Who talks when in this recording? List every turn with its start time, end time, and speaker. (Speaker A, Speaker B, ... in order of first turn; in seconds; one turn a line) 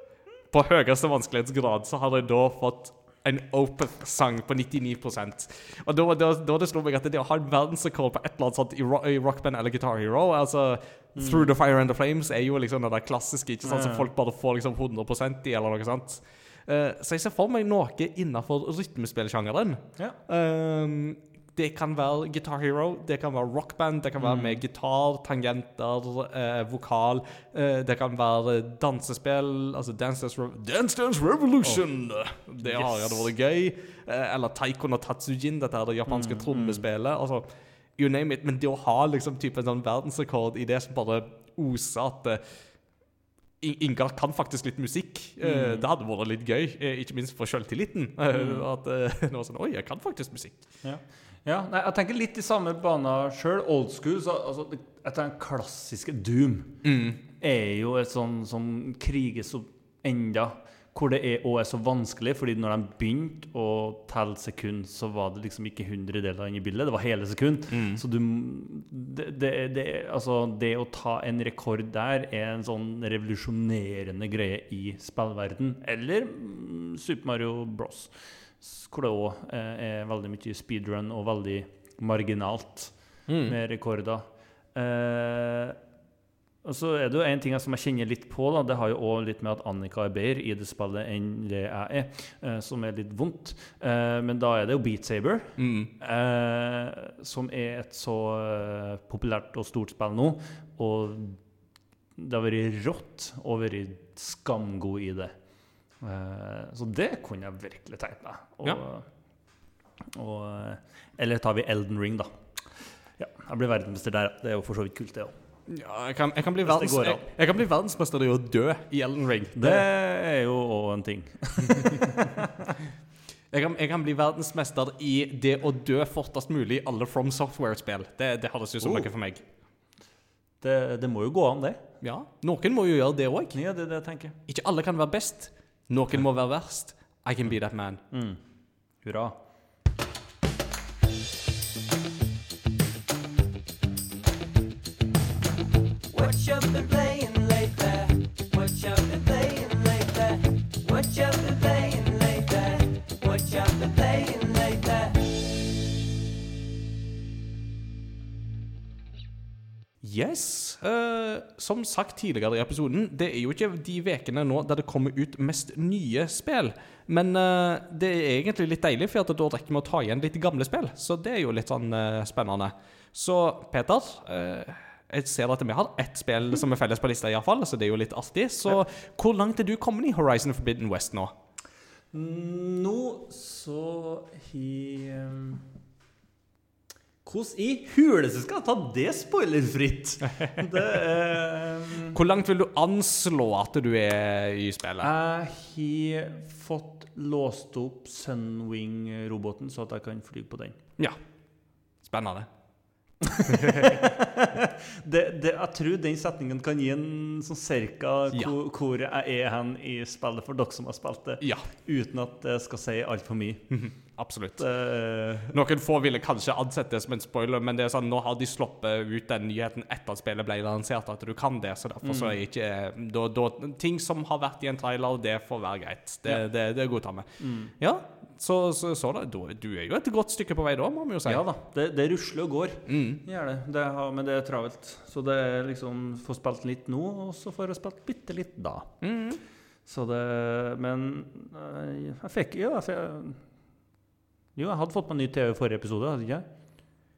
Speaker A: 0.5-42.8
Speaker B: 11.2-11.5
Speaker B: 13.6-14.1
Speaker B: 24.2-24.6
Speaker B: 32.6-33.3
Speaker B: 36.1-36.9
Speaker A: 43.6-50.7
Speaker B: 45.4-45.9
Speaker B: 48.3-48.6
Speaker B: 50.8-56.8
Speaker A: 56.8-57.2
Speaker B: 57.4-85.8
Speaker A: 67.7-68.0
Speaker A: 83.3-83.6
Speaker B: 86.6-101.4
Speaker A: 95.6-95.9
Speaker B: 102.2-105.3
Speaker B: 106.0-109.1
Speaker B: 110.1-112.4
Speaker B: 113.2-115.3
Speaker A: 115.7-119.9
Speaker B: 116.6-117.3
Speaker B: 119.6-122.5
Speaker A: 123.5-129.4
Speaker B: 128.8-129.1
Speaker B: 130.6-131.8
Speaker A: 132.0-133.6
Speaker B: 133.5-134.4
Speaker A: 134.5-138.0
Speaker B: 138.1-138.4
Speaker B: 139.0-139.4
Speaker C: 146.1-155.2
Speaker A: 160.0-181.3
Speaker B: 182.1-185.6
Speaker B: 187.2-192.2
Speaker A: 192.1-195.1
Speaker B: 195.0-200.8
Speaker A: 202.0-202.5
Speaker B: 203.2-213.8
Speaker A: 203.5-203.9
Speaker A: 211.4-211.7
Speaker A: 213.7-214.7
Speaker B: 214.6-215.5
Speaker A: 215.5-227.3
Speaker B: 222.0-222.4
Speaker B: 227.4-227.7
Speaker A: 227.8-231.4
Speaker B: 231.3-239.0
Speaker A: 232.9-233.2
Speaker A: 239.0-239.4
Speaker B: 239.9-243.4
Speaker B: 244.6-246.5